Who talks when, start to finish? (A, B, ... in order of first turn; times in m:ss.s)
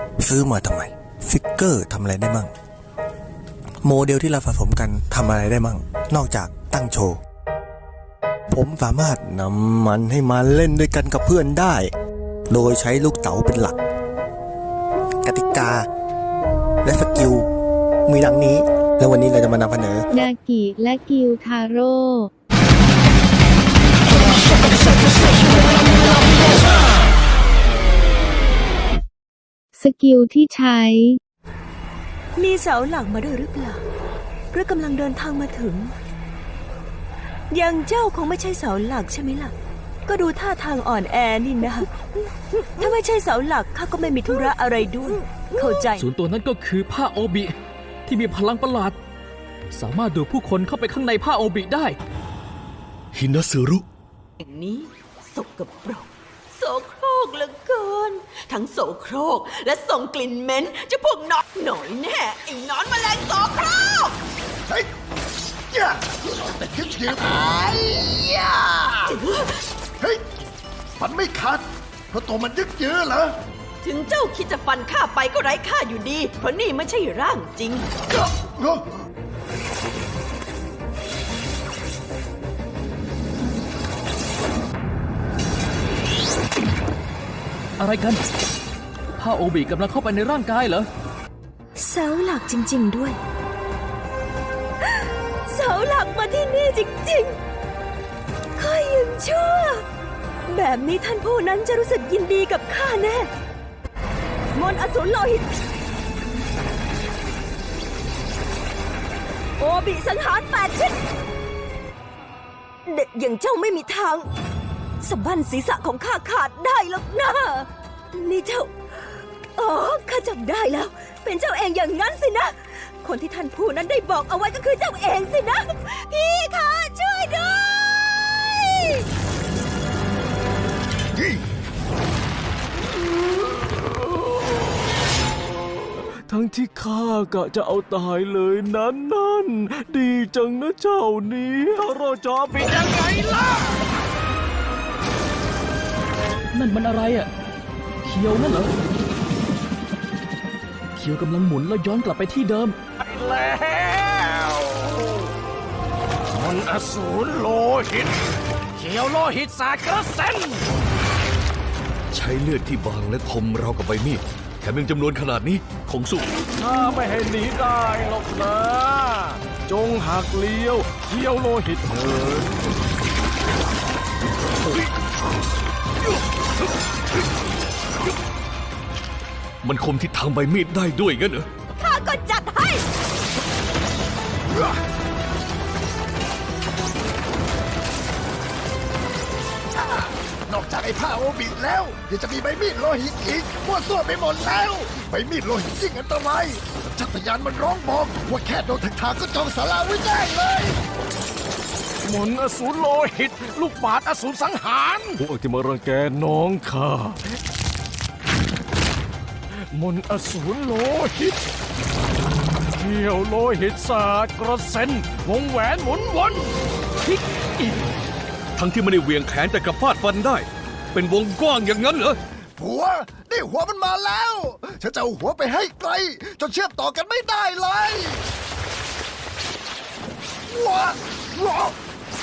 0:00.2-0:02.5 A
0:03.8-0:07.2 A
0:08.5-0:11.9 A
0:12.5-0:13.8 A
0:15.2-0:15.8 A
0:16.8-0:17.5 A
0:18.0-0:20.0 A
0:20.1-0:22.3 B
0:29.8-0:31.2 B
0:32.4-0:33.8 C
0:34.5-0:35.9 C
0:37.5-0:39.5 C
0:40.0-0:41.9 C
0:42.8-0:46.0 C
0:45.9-0:47.5 D
0:48.1-0:49.0 D
0:49.7-0:52.0 D
0:53.1-0:53.8 E
0:54.4-1:04.2 F
1:05.7-1:09.2 G
1:09.1-1:09.6 F
1:11.0-1:13.4 G
1:13.8-1:17.9 F
1:18.1-1:18.8 G
1:27.8-1:28.2 D
1:29.2-1:30.9 D
1:31.8-1:33.2 C
1:34.8-1:37.4 C
1:38.6-1:39.8 C
1:40.5-1:43.3 C
1:44.5-1:45.6 C
1:49.6-1:51.0 C
1:52.8-1:54.3 C
1:55.0-1:58.7 C
1:59.5-2:09.0 C
2:13.5-2:14.0 H
2:15.7-2:23.8 H
2:26.5-2:27.3 D
2:28.0-2:28.7 D
2:31.0-2:32.8 D
2:33.0-2:35.3 H
2:36.3-2:38.2 H
2:38.8-2:40.6 H
2:42.1-2:46.4 E
2:46.6-2:52.5 H
2:59.6-3:01.5 E
3:01.7-3:02.8 C
3:09.7-3:20.8 G
3:22.0-3:27.3 H
3:29.7-3:31.4 H
3:32.7-3:36.6 H
3:37.0-3:37.7 D
3:38.6-3:42.2 E
3:42.6-3:48.2 G
3:50.5-3:51.8 G